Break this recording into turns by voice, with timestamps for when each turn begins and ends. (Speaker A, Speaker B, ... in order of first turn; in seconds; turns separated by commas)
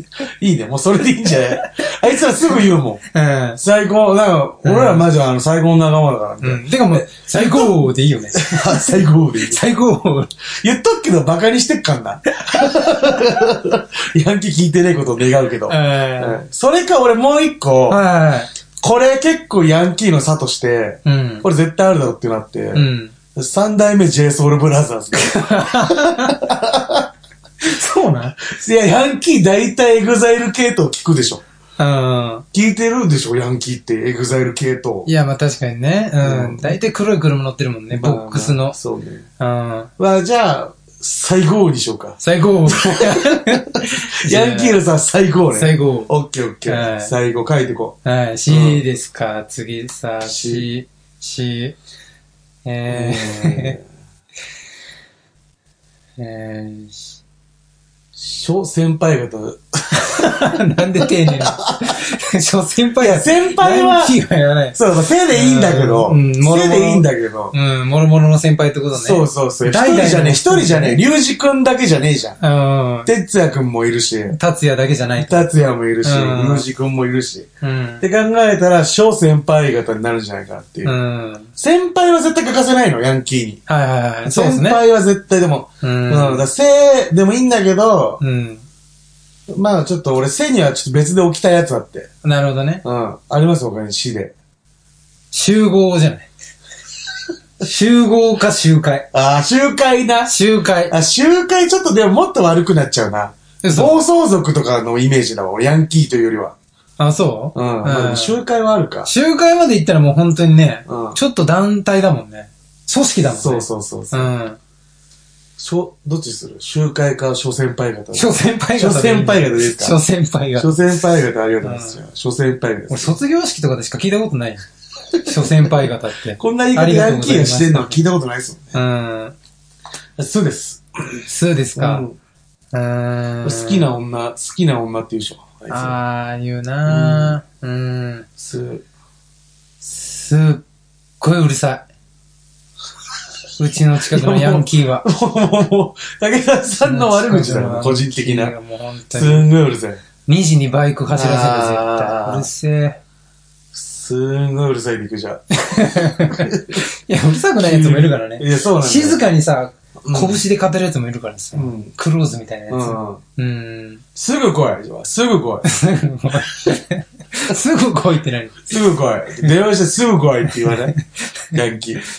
Speaker A: 0.4-3.0, Speaker B: 3.1-3.6, Speaker A: 3.6-7.8, Speaker B: 4.7-5.0, Speaker B: 6.4-10.3, Speaker A: 8.3-9.6, Speaker A: 10.6-18.0, Speaker B: 15.7-16.4, Speaker B: 17.9-18.5, Speaker A: 18.8-27.1, Speaker B: 21.1-21.5, Speaker B: 22.7-23.1, Speaker B: 25.2-26.4, Speaker B: 27.6-28.4, Speaker A: 28.4-31.4, Speaker B: 31.8-32.5, Speaker A: 32.5-35.1, Speaker B: 35.1-38.8, Speaker A: 36.2-36.8, Speaker A: 37.9-39.3, Speaker B: 39.4-39.9, Speaker A: 40.0-48.8, Speaker B: 42.2-44.8, Speaker B: 45.5-46.1, Speaker B: 46.7-47.1, Speaker B: 48.0-51.8, Speaker A: 50.2-50.7, Speaker B: 52.6-53.8, Speaker A: 52.9-53.8, Speaker B: 56.2-57.1, Speaker A: 58.2-60.5, Speaker B: 59.9-64.8, Speaker A: 61.0-62.0, Speaker A: 63.0-64.2, Speaker A: 64.7-67.5, Speaker B: 65.3-71.0, Speaker A: 68.9-72.4, Speaker B: 72.4-73.1, Speaker A: 73.1-74.4, Speaker B: 74.3-75.5, Speaker A: 75.2-77.5, Speaker B: 76.0-76.7, Speaker B: 77.6-78.0, Speaker A: 78.0-81.0, Speaker B: 80.8-81.5, Speaker A: 81.6-83.6, Speaker B: 83.7-84.8, Speaker A: 84.2-88.2, Speaker B: 85.8-86.5, Speaker B: 88.2-88.7, Speaker A: 89.5-92.1, Speaker B: 92.2-92.8, Speaker A: 92.8-94.3, Speaker B: 95.3-96.3, Speaker B: 97.6-99.1, Speaker A: 99.1-100.3, Speaker B: 100.3-101.0, Speaker A: 100.9-106.5, Speaker B: 103.6-104.0, Speaker B: 107.0-108.4, Speaker A: 107.5-109.1, Speaker B: 109.1-114.6, Speaker A: 110.9-111.2, Speaker A: 113.3-114.3, Speaker A: 115.6-120.0, Speaker B: 118.1-120.7, Speaker A: 120.6-123.2, Speaker B: 121.6-122.0, Speaker B: 122.9-124.7, Speaker B: 125.2-128.0, Speaker A: 125.2-125.7, Speaker A: 126.4-128.8, Speaker B: 128.7-129.3, Speaker A: 130.2-131.2, Speaker B: 131.3-132.1, Speaker A: 131.8-132.2, Speaker B: 132.7-133.9, Speaker A: 133.4-136.0, Speaker B: 135.7-138.3, Speaker A: 136.9-137.4, Speaker A: 138.4-138.8, Speaker B: 139.8-140.7, Speaker B: 141.2-141.9, Speaker B: 143.6-145.1, Speaker A: 144.1-148.6, Speaker B: 146.8-149.5, Speaker A: 149.1-150.0, Speaker B: 150.2-153.0, Speaker A: 151.1-152.5, Speaker A: 153.7-156.8, Speaker B: 155.6-164.0, Speaker A: 157.6-159.2, Speaker A: 160.0-160.4, Speaker A: 161.5-161.9, Speaker A: 162.7-163.2, Speaker A: 164.2-165.7, Speaker B: 165.7-168.7, Speaker A: 168.7-171.0, Speaker B: 170.7-171.0, Speaker A: 171.5-172.0